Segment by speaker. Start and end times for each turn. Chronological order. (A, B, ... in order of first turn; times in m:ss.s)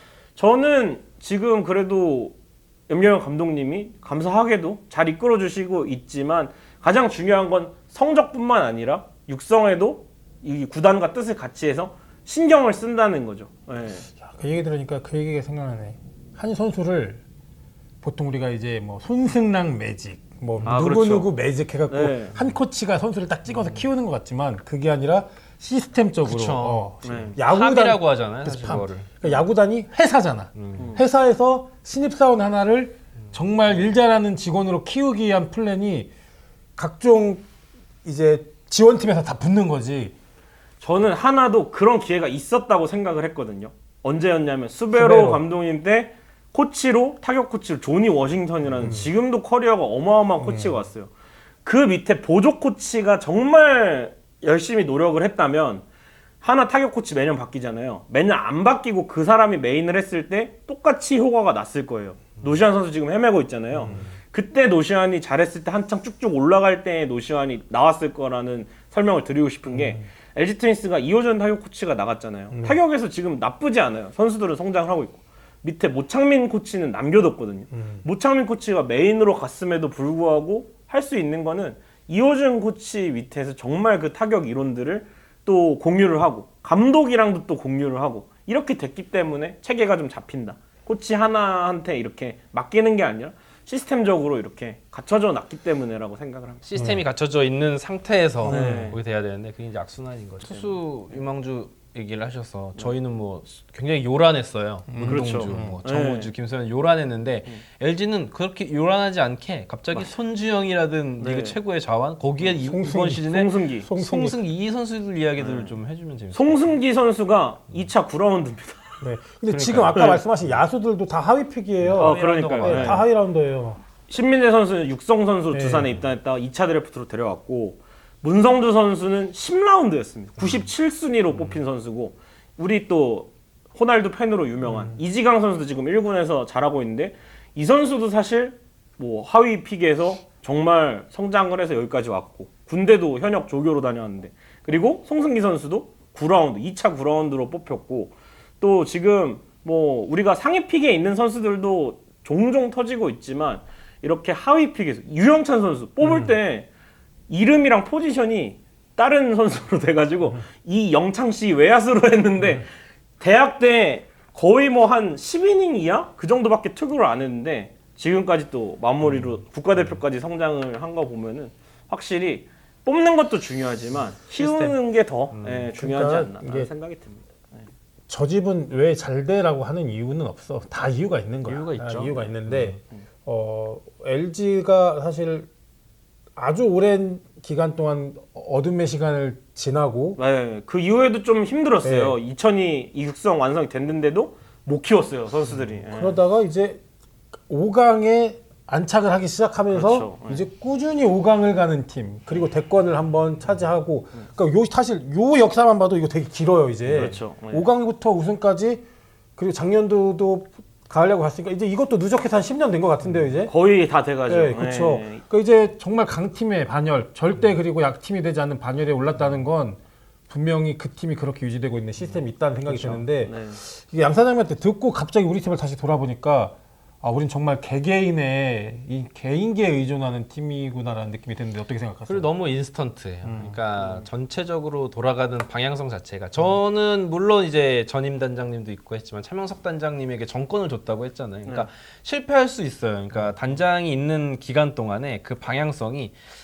0:00.4-0:02.4 A
0:02.9-0:14.1 A
0:14.2-0:17.2 B
0:18.0-0:36.1 B
0:20.6-0:21.3 A
0:21.9-0:22.4 A
0:23.5-0:23.8 C
0:26.2-0:29.2 C
0:27.0-0:27.4 A
0:30.6-0:30.9 C
0:30.8-0:31.0 A
0:36.8-0:37.4 B
0:38.0-0:40.2 B
0:40.8-0:51.1 A
0:44.9-0:45.4 B
0:48.8-0:49.1 B
0:50.4-0:50.7 B
0:51.6-0:55.8 A
0:56.4-1:36.7 A
1:09.7-1:10.0 B
1:12.5-1:12.8 B
1:17.7-1:18.0 B
1:36.6-1:56.8 C
1:36.8-1:37.0 B
1:38.4-1:38.9 B
1:38.4-1:39.0 A
1:40.5-1:40.7 A
1:44.9-1:45.8 B
1:45.0-1:46.3 A
1:51.2-1:51.6 A
1:52.6-1:54.4 B
1:53.3-1:53.9 A
1:55.4-1:55.8 A
1:56.3-1:58.8 A
1:59.0-2:03.8 B
1:59.5-2:00.2 C
2:00.0-2:00.2 A
2:01.8-2:03.0 C
2:02.0-2:03.0 A
2:04.1-2:36.7 A
2:05.5-2:05.9 B
2:14.6-2:15.0 B
2:37.3-2:42.7 A
2:43.2-2:57.2 A
2:54.4-2:54.8 C
2:55.3-2:55.7 C
2:55.8-2:56.7 B
2:58.1-3:05.5 B
3:01.4-3:02.8 C
3:06.4-3:10.2 B
3:10.2-3:16.2 A
3:11.8-3:12.2 B
3:15.9-3:16.8 B
3:17.5-3:28.9 B
3:19.7-3:20.4 A
3:26.9-3:27.7 A
3:29.4-3:33.5 B
3:33.5-3:35.2 A
3:34.3-3:52.3 B
3:42.7-3:43.6 A
3:52.1-4:06.2 C
3:53.2-3:53.6 B
3:53.8-3:54.0 A